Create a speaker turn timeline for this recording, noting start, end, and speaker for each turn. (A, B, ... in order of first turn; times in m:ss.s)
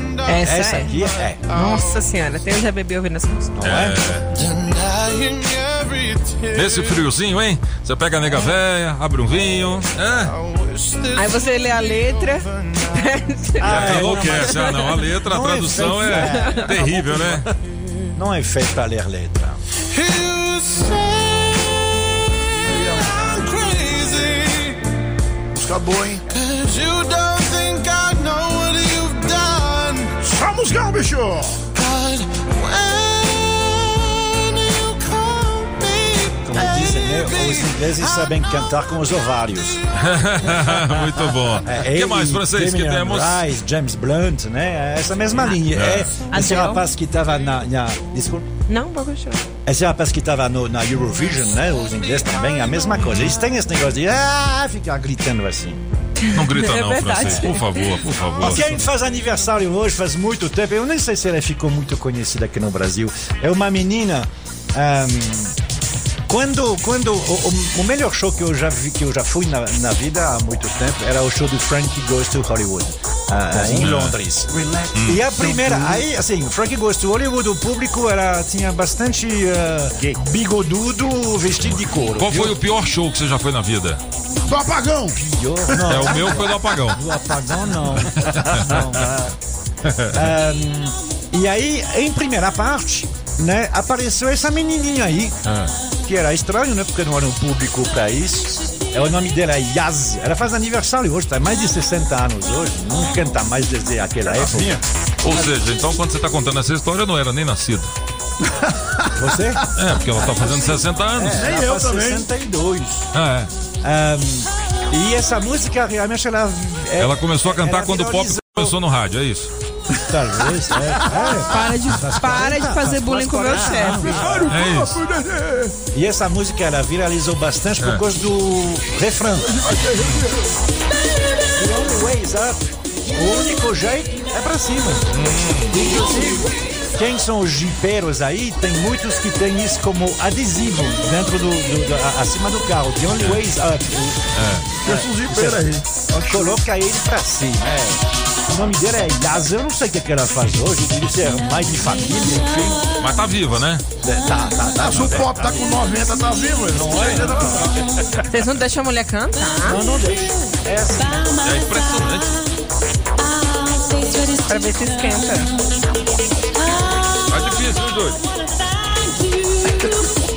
0:00.2-0:00.9 A
0:00.4-0:01.5 B
0:01.5-0:03.5 A
0:03.6-0:04.0 B
0:03.6-0:04.4 C
0:04.4-0:06.4 D
0:06.5-0:10.4 C
0:10.5-0:11.5 D
0:11.1-0:13.9 A
0:13.6-0:17.4 B
0:13.6-0:17.5 C
0:14.6-0:15.0 A
0:18.1-0:19.6 B
0:19.9-0:22.6 D
0:22.6-0:24.4 E
0:23.2-0:24.8 D
0:25.5-0:26.4 E
0:26.4-0:30.1 D
0:30.1-0:31.7 E
0:31.8-0:37.2 D
0:36.4-0:39.8 B
0:39.9-0:43.4 C
0:40.8-0:41.1 B
0:41.6-0:48.5 B
0:45.7-0:46.1 C
0:46.3-0:46.8 A
0:48.7-0:49.4 A
0:49.6-0:55.8 B
0:56.3-0:57.9 A
0:56.3-0:58.8 C
0:58.4-1:05.6 B
1:06.3-1:22.6 B
1:13.6-1:14.2 C
1:14.6-1:16.0 E
1:14.9-1:15.2 C
1:21.7-1:24.0 C
1:24.4-1:25.2 E
1:25.1-1:29.3 B
1:25.8-1:26.0 E
1:25.8-1:27.0 C
1:28.1-1:29.3 C
1:29.8-1:30.2 C
1:30.1-1:35.4 B
1:35.4-1:35.8 C
1:35.9-1:45.6 B
1:44.4-1:44.8 E
1:45.2-1:47.9 C
1:48.5-1:49.1 E
1:49.2-1:53.1 B
1:49.8-1:51.5 C
1:51.3-1:52.3 E
1:53.1-1:53.5 C
1:53.8-1:58.8 B
1:57.0-1:59.5 C
1:59.9-2:04.6 B
2:00.9-2:01.5 E
2:01.5-2:04.1 A
2:03.9-2:05.8 E
2:04.4-2:05.0 C
2:05.9-2:09.6 B
2:09.5-2:10.5 E
2:10.0-2:10.3 C
2:11.5-2:25.7 B
2:15.1-2:15.8 C
2:24.3-2:24.7 C
2:24.8-2:26.6 E
2:26.2-2:32.9 B
2:33.0-2:33.9 C
2:34.0-2:35.7 B
2:34.7-2:37.8 E
2:36.7-2:38.1 B
2:38.3-2:39.8 A
2:39.6-2:41.4 B
2:41.4-2:42.4 C
2:44.3-2:45.6 A
2:47.2-2:48.2 C